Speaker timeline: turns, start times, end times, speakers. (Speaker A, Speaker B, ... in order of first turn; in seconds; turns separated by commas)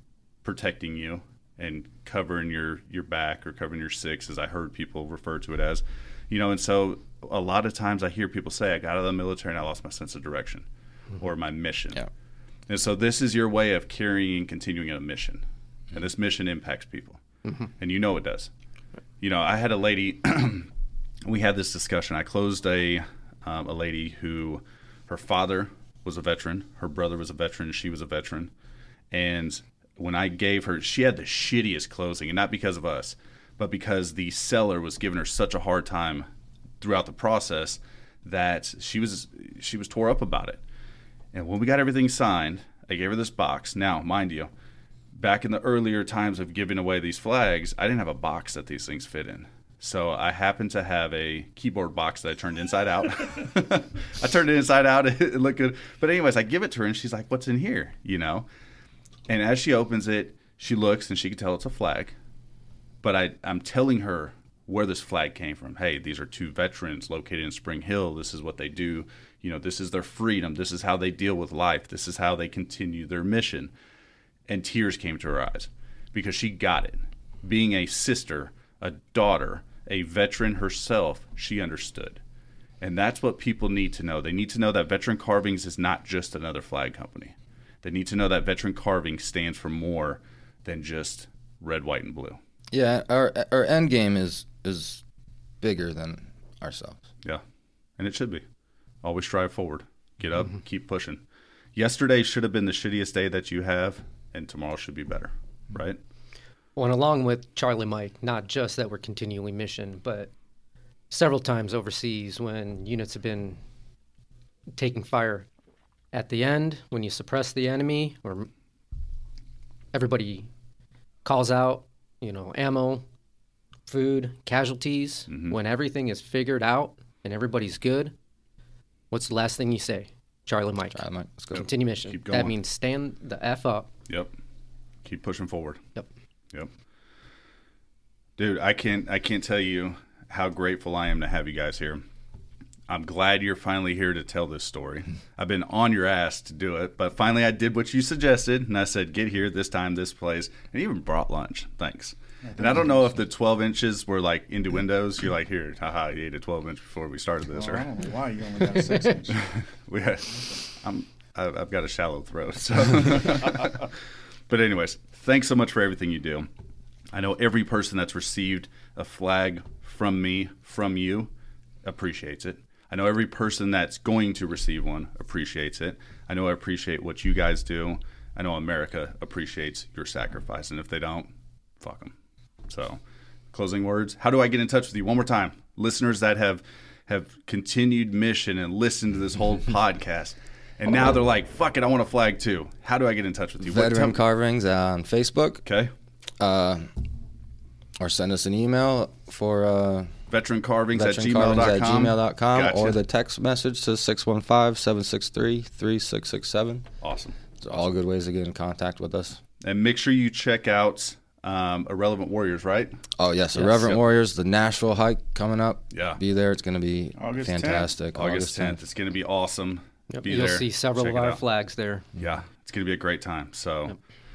Speaker A: 0.4-10.7, Speaker A: 11.2-12.0, Speaker A: 12.7-17.2, Speaker A: 17.8-18.5, Speaker A: 19.2-20.7, Speaker A: 21.2-28.5, Speaker A: 29.1-36.2, Speaker A: 36.8-40.6, Speaker A: 41.3-44.5, Speaker A: 45.1-58.5, Speaker A: 59.3-62.1, Speaker A: 63.0-73.7, Speaker A: 74.5-82.2, Speaker A: 82.8-92.4, Speaker B: 92.7-95.0, Speaker B: 95.6-97.0, Speaker A: 98.0-98.4, Speaker A: 99.0-101.2, Speaker A: 101.8-106.0, Speaker C: 106.8-110.3, Speaker C: 111.1-113.6, Speaker C: 114.8-115.5, Speaker C: 116.1-118.5, Speaker C: 119.9-120.5, Speaker C: 121.2-123.0, Speaker C: 123.9-128.1, Speaker A: 125.3-125.6, Speaker C: 129.1-133.9, Speaker B: 130.9-131.7, Speaker A: 131.5-132.5, Speaker A: 135.0-135.8, Speaker A: 138.4-142.0, Speaker A: 142.9-157.9, Speaker D: 152.4-152.9, Speaker D: 157.5-159.4, Speaker A: 159.3-166.5, Speaker A: 167.1-171.3, Speaker A: 171.8-182.1, Speaker A: 182.7-183.0, Speaker A: 183.5-194.2, Speaker B: 193.6-195.6, Speaker A: 195.6-195.9, Speaker B: 196.4-197.0, Speaker B: 198.0-200.1, Speaker A: 200.3-203.0, Speaker B: 200.9-206.9, Speaker A: 207.0-207.4, Speaker B: 207.6-209.4, Speaker A: 209.6-213.0, Speaker B: 213.2-218.8, Speaker A: 213.6-214.0, Speaker A: 215.9-216.2, Speaker D: 217.2-217.9, Speaker A: 218.1-221.4, Speaker C: 220.1-222.1, Speaker A: 222.2-223.9